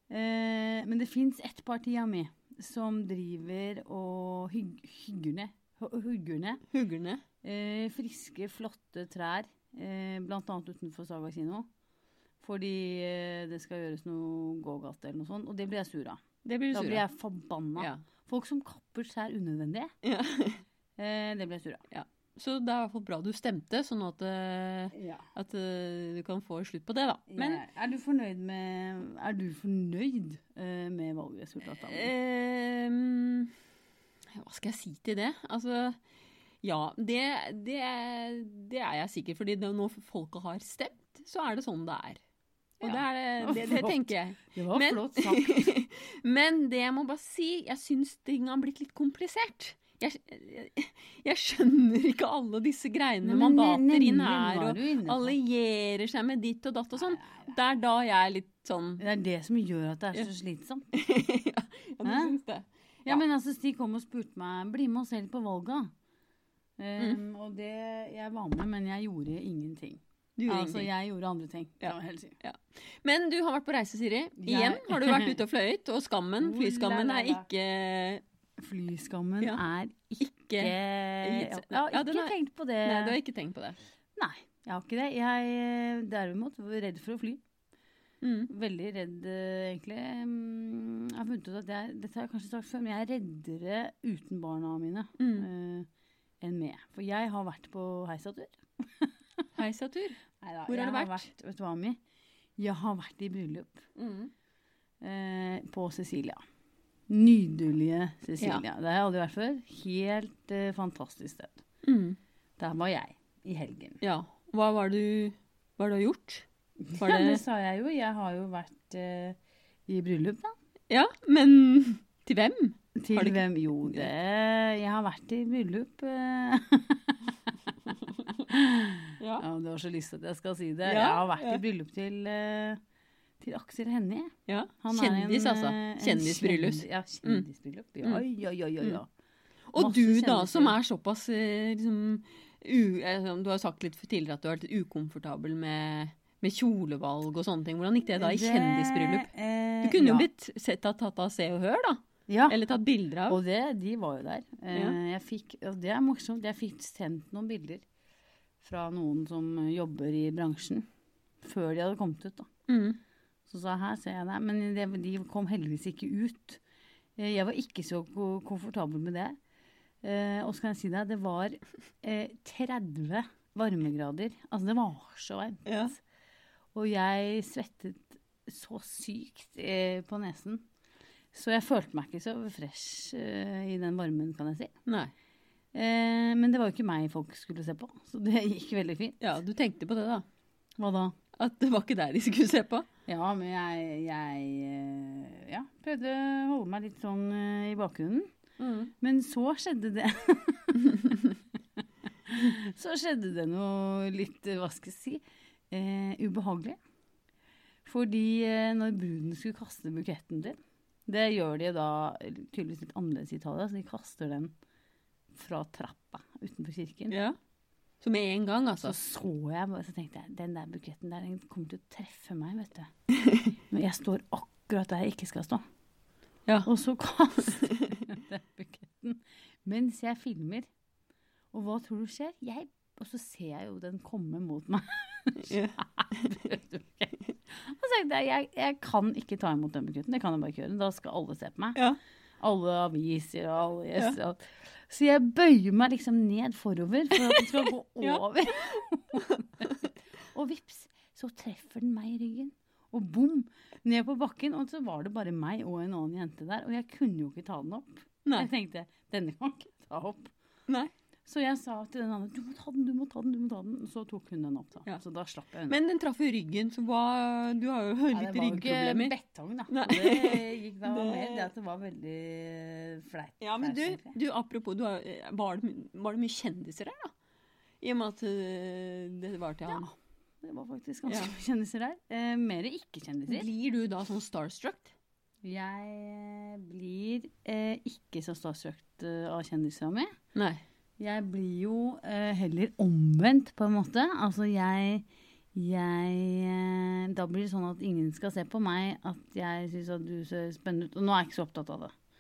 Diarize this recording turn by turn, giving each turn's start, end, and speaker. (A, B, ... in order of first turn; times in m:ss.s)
0:00.1-0:06.6 A
0:06.7-0:07.2 B
0:07.4-0:11.7 A
0:12.4-0:19.9 A
0:16.4-0:17.0 B
0:20.0-0:20.6 B
0:21.0-0:21.8 A
0:21.9-0:27.6 B
0:24.9-0:25.3 A
0:27.3-0:32.1 A
0:31.7-0:33.6 B
0:34.3-0:36.0 B
0:36.6-0:42.2 B
0:42.8-0:45.7 A
0:42.8-0:59.0 B
0:53.2-0:55.4 A
0:57.1-0:57.5 A
0:59.0-1:01.0 A
1:00.9-1:03.2 B
1:02.0-1:02.3 A
1:03.1-1:05.9 A
1:06.8-1:12.4 A
1:10.4-1:10.9 B
1:11.8-1:18.2 B
1:14.4-1:15.4 A
1:16.4-1:17.5 A
1:18.6-1:23.2 A
1:20.2-1:23.8 B
1:24.2-1:27.4 A
1:28.2-1:28.5 B
1:28.5-1:35.9 A
1:35.2-1:35.5 B
1:36.4-1:39.1 A
1:39.6-1:41.3 B
1:40.4-1:42.0 A
1:42.6-1:43.8 A
1:44.0-1:44.3 B
1:45.0-1:46.4 A
1:47.1-1:51.6 A
1:51.8-1:52.2 B
1:52.6-1:54.0 A
1:54.0-1:56.5 B
1:56.8-1:59.4 A
1:57.0-1:57.4 B
1:59.9-2:00.5 A
2:00.9-2:04.1 B
2:03.0-2:07.2 A
2:08.5-2:12.8 A
2:09.2-2:09.4 B
2:10.9-2:11.6 B
2:13.4-2:19.1 A
2:14.5-2:17.4 B
2:19.7-2:29.3 B
2:19.8-2:20.8 A
2:28.2-2:30.3 A
2:29.8-2:33.4 B
2:32.3-2:32.6 A
2:33.3-2:37.8 A
2:38.6-2:40.9 A
2:41.4-2:42.5 A
2:42.7-2:43.0 B
2:43.5-2:46.6 A
2:47.2-2:49.4 A
2:50.0-2:56.0 A
2:55.7-2:55.9 B
2:56.8-3:00.6 A
3:01.3-3:04.7 A
3:04.9-3:05.1 B
3:05.7-3:09.2 A
3:09.2-3:10.2 B
3:10.8-3:11.2 A
3:11.4-3:12.9 B
3:13.1-3:18.3 A
3:18.6-3:18.9 B
3:19.0-3:21.3 A
3:22.2-3:26.8 A
3:27.8-3:30.6 A
3:31.1-3:34.5 A
3:35.4-3:37.2 A
3:37.1-3:37.4 B
3:38.0-3:39.0 B
3:38.8-3:42.9 A
3:43.7-3:45.6 A
3:46.6-3:50.7 A
3:51.5-4:01.8 A
3:55.5-3:56.2 B
4:02.4-4:09.7 A
4:07.2-4:09.8 B
4:10.3-4:20.3 A
4:21.3-4:25.8 A
4:25.7-4:29.1 B
4:28.1-4:34.2 A
4:29.7-4:31.5 B
4:33.4-4:37.1 B
4:37.8-4:39.8 B
4:39.7-4:43.5 A
4:41.1-4:41.4 B
4:43.3-4:44.9 B
4:45.4-4:50.1 A
4:50.4-4:50.6 B
4:51.0-5:01.9 A